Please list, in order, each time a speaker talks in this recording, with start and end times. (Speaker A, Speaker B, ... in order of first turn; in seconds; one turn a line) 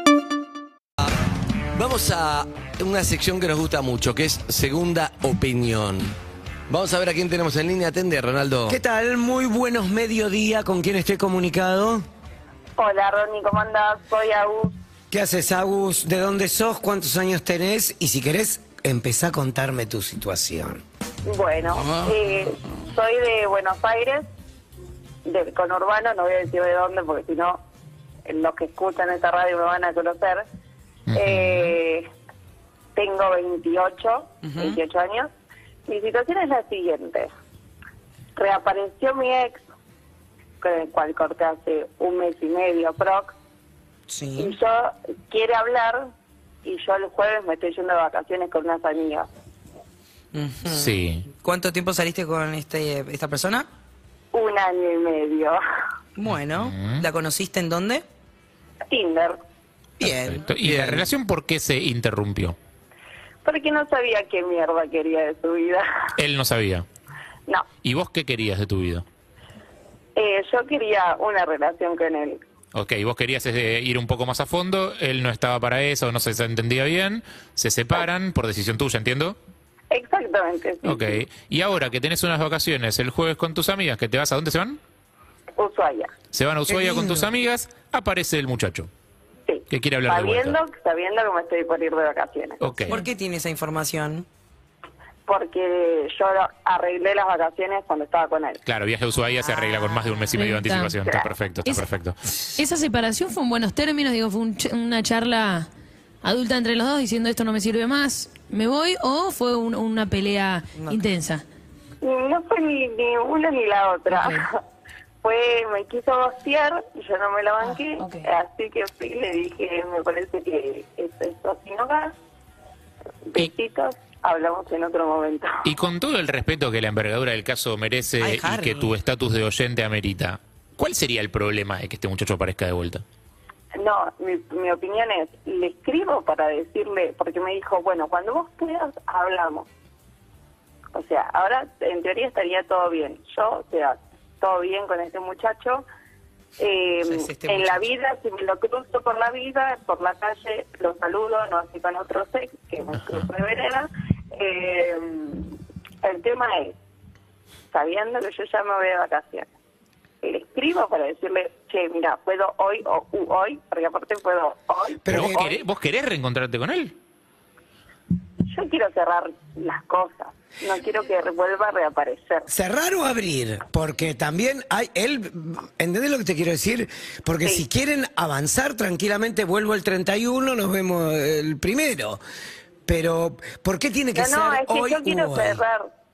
Speaker A: 1.8-6.1
Speaker A: 6.7-8.8
Speaker B: 8.7-12.0
Speaker C: 12.8-14.8
Speaker B: 15.1-20.8
Speaker C: 21.3-24.2
Speaker D: 21.8-22.1
Speaker C: 25.2-27.6
Speaker C: 28.3-30.4
Speaker E: 31.1-31.8
Speaker C: 31.1-32.0
Speaker C: 33.0-35.3
Speaker D: 34.4-34.8
Speaker C: 35.9-37.3
Speaker C: 38.4-39.6
Speaker C: 40.6-43.3
Speaker D: 44.1-44.6
Speaker C: 44.4-46.1
Speaker C: 46.6-49.3
Speaker D: 50.3-53.7
Speaker E: 50.7-51.3
Speaker C: 54.3-55.6
Speaker D: 56.2-58.0
Speaker E: 56.3-57.0
Speaker C: 58.9-59.4
Speaker D: 60.0-61.1
Speaker E: 60.0-62.6
Speaker C: 63.4-65.8
Speaker E: 66.2-66.9
Speaker E: 67.8-69.0
Speaker C: 70.2-72.4
Speaker E: 72.7-79.4
Speaker C: 79.9-81.2
Speaker E: 80.8-84.8
Speaker C: 85.6-86.1
Speaker E: 86.3-88.9
Speaker D: 86.7-87.0
Speaker C: 89.5-92.9
Speaker E: 89.7-90.6
Speaker E: 92.6-93.0
Speaker D: 92.9-94.3
Speaker C: 95.3-98.6
Speaker E: 98.7-102.2
Speaker D: 99.5-100.1
Speaker F: 100.4-100.9
Speaker F: 102.6-105.7
Speaker F: 106.2-111.4
Speaker D: 110.7-111.1
Speaker C: 112.0-114.5
Speaker C: 115.2-122.1
Speaker C: 123.3-125.6
Speaker E: 125.7-133.0
Speaker D: 128.2-128.9
Speaker C: 133.8-139.7
Speaker C: 140.9-145.8
Speaker C: 146.6-156.8
Speaker D: 147.0-147.8
Speaker C: 157.7-159.5
Speaker C: 160.2-165.6
Speaker B: 165.0-165.6
Speaker E: 165.1-166.9
Speaker C: 168.5-172.5
Speaker B: 172.5-182.2
Speaker B: 182.9-185.6
Speaker C: 184.1-185.9